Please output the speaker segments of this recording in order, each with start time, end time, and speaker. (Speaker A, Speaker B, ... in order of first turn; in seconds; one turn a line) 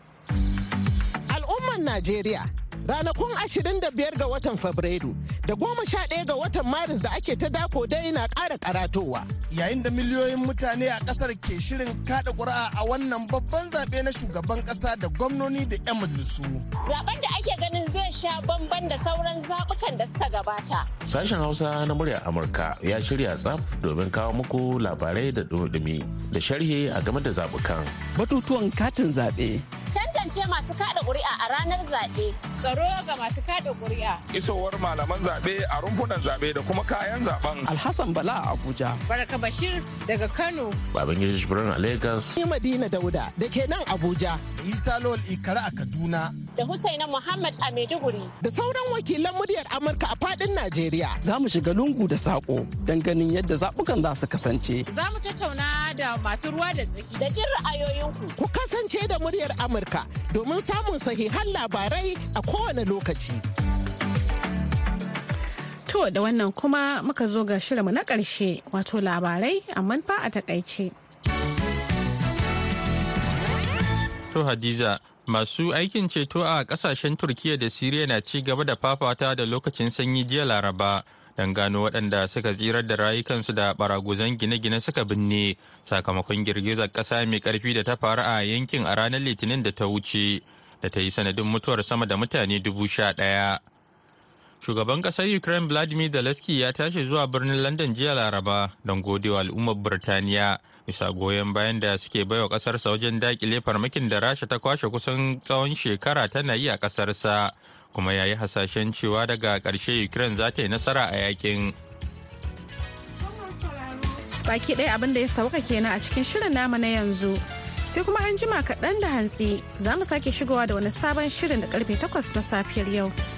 Speaker A: 1.3-9.3
Speaker B: 9.5-16.6
Speaker C: 16.9-20.9
Speaker D: 21.1-27.9
Speaker E: 28.1-29.6
Speaker C: 29.9-34.2
Speaker F: 34.3-37.7
Speaker E: 37.7-39.0
Speaker C: 39.1-40.8
Speaker D: 40.9-42.3
Speaker A: 42.4-44.4
Speaker B: 44.6-46.3
Speaker C: 46.6-48.3
Speaker A: 48.4-51.2
Speaker E: 51.2-54.9
Speaker C: 54.9-58.3
Speaker A: 58.4-63.4
Speaker G: 65.9-70.9
Speaker H: 74.3-93.6
Speaker H: 94.6-111.7
Speaker G: 114.3-123.1